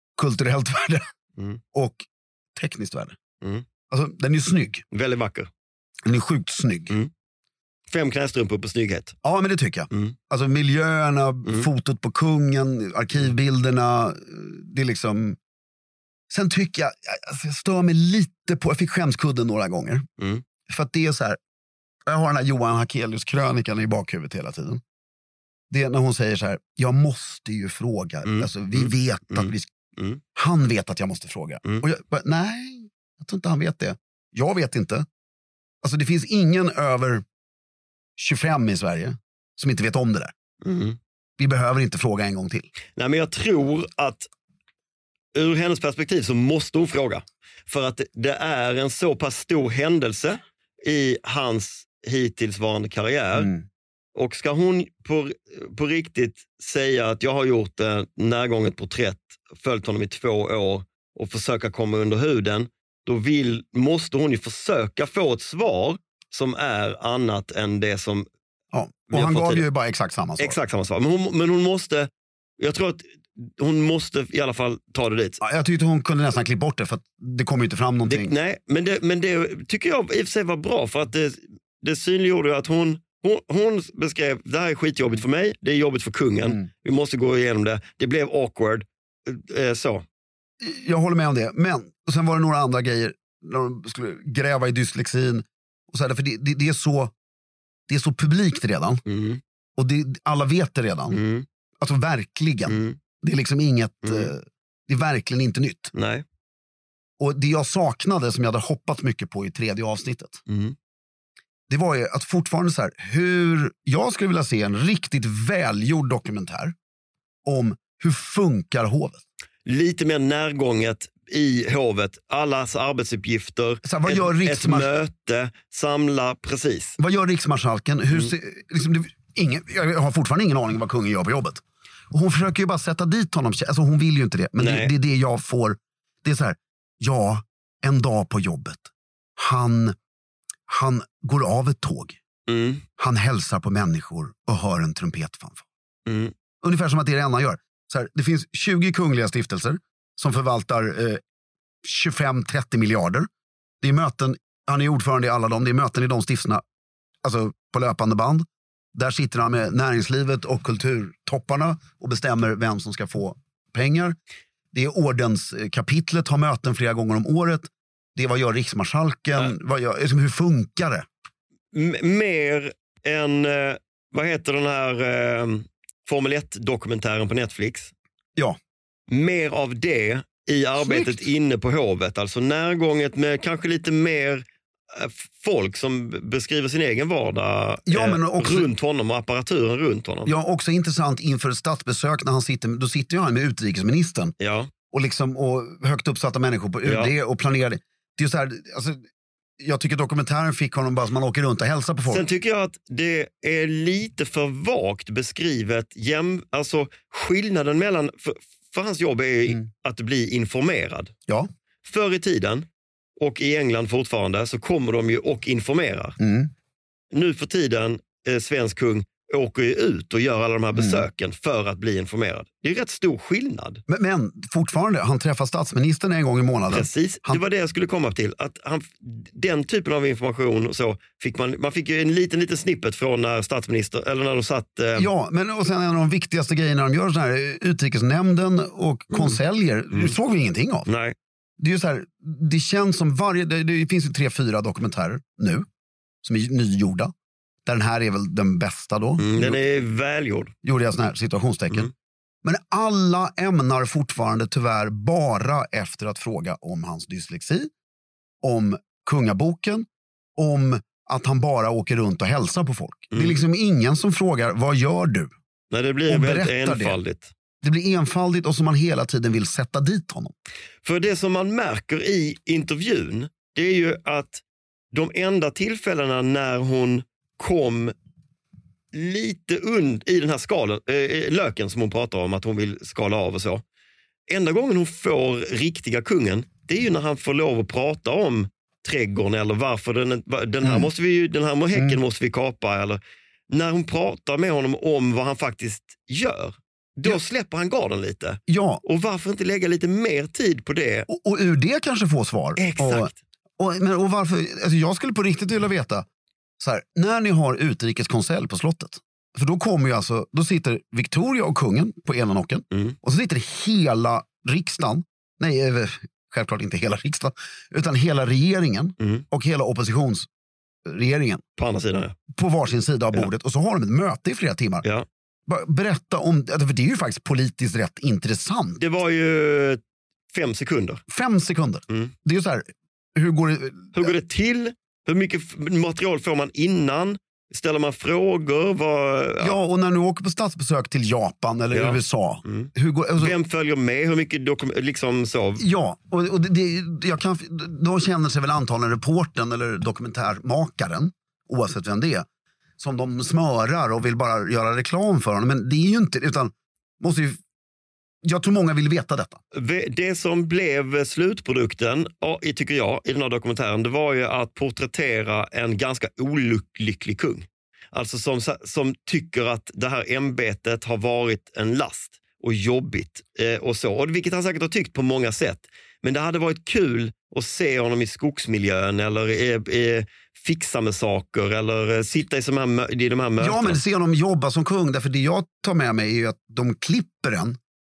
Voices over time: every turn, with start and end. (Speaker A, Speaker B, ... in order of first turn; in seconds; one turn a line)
Speaker A: 0.2-1.0
Speaker A: 1.7-2.0
Speaker A: 2.5-3.1
Speaker A: 3.9-4.8
Speaker B: 4.9-5.5
Speaker A: 6.0-6.9
Speaker B: 7.9-9.1
Speaker A: 9.2-15.4
Speaker A: 16.3-20.1
Speaker A: 20.7-21.4
Speaker A: 22.1-24.8
Speaker A: 25.7-29.7
Speaker B: 28.2-30.2
Speaker A: 30.3-35.0
Speaker A: 35.8-37.2
Speaker A: 38.2-40.3
Speaker B: 40.6-41.0
Speaker A: 41.4-42.7
Speaker B: 43.0-44.3
Speaker B: 45.3-53.5
Speaker A: 53.4-53.6
Speaker B: 54.1-68.3
Speaker A: 68.7-70.6
Speaker B: 69.1-69.7
Speaker B: 70.4-75.4
Speaker A: 75.4-78.3
Speaker B: 78.0-90.0
Speaker A: 90.6-97.1
Speaker A: 97.9-99.0
Speaker B: 99.0-99.4
Speaker A: 99.8-101.2
Speaker B: 101.1-101.5
Speaker A: 101.8-105.9
Speaker B: 102.7-103.0
Speaker B: 104.0-104.3
Speaker B: 105.9-106.2
Speaker A: 107.2-110.4
Speaker B: 110.5-110.7
Speaker A: 111.7-116.7
Speaker A: 117.4-119.2
Speaker B: 119.7-127.0
Speaker A: 123.8-124.9
Speaker A: 127.0-139.9
Speaker B: 134.6-134.9
Speaker A: 140.7-142.2
Speaker B: 142.5-142.8
Speaker A: 143.0-145.6
Speaker B: 146.1-146.3
Speaker A: 146.6-151.2
Speaker A: 151.8-153.3
Speaker A: 153.8-156.6
Speaker A: 157.2-164.2
Speaker A: 164.7-171.0
Speaker B: 171.7-177.9
Speaker B: 179.1-190.3
Speaker A: 180.8-181.2
Speaker A: 187.9-188.7
Speaker A: 190.2-194.3
Speaker B: 194.4-194.7
Speaker A: 194.9-199.0
Speaker B: 196.8-197.1
Speaker A: 199.6-202.2
Speaker B: 202.1-211.1
Speaker B: 211.8-212.6
Speaker B: 213.2-216.2
Speaker A: 216.2-216.5
Speaker B: 217.1-223.8
Speaker A: 220.7-221.0
Speaker A: 223.9-227.4
Speaker B: 226.7-235.1
Speaker A: 234.9-240.9
Speaker B: 239.1-239.4
Speaker B: 240.8-241.1
Speaker A: 241.6-245.6
Speaker A: 246.2-247.1
Speaker A: 247.6-249.6
Speaker B: 249.2-250.5
Speaker A: 250.6-251.9
Speaker A: 252.4-257.7
Speaker A: 258.4-265.3
Speaker B: 265.7-267.3
Speaker A: 266.1-267.0
Speaker A: 267.6-270.3
Speaker B: 270.8-277.9
Speaker B: 278.9-283.6
Speaker B: 284.3-301.1
Speaker A: 290.6-290.9
Speaker A: 291.7-292.0
Speaker A: 298.5-298.8
Speaker A: 301.1-306.0
Speaker B: 302.6-303.1
Speaker A: 306.6-320.3
Speaker B: 312.7-313.0
Speaker B: 319.0-319.2
Speaker A: 320.9-321.4
Speaker B: 321.6-322.1
Speaker A: 322.3-324.8
Speaker A: 325.5-328.8
Speaker B: 328.8-329.8
Speaker B: 330.3-331.0
Speaker A: 331.1-334.1
Speaker B: 333.9-339.6
Speaker A: 339.4-343.3
Speaker B: 341.7-345.6
Speaker A: 345.6-352.2
Speaker A: 352.8-357.4
Speaker A: 358.2-359.4
Speaker B: 359.5-383.8
Speaker A: 383.4-387.6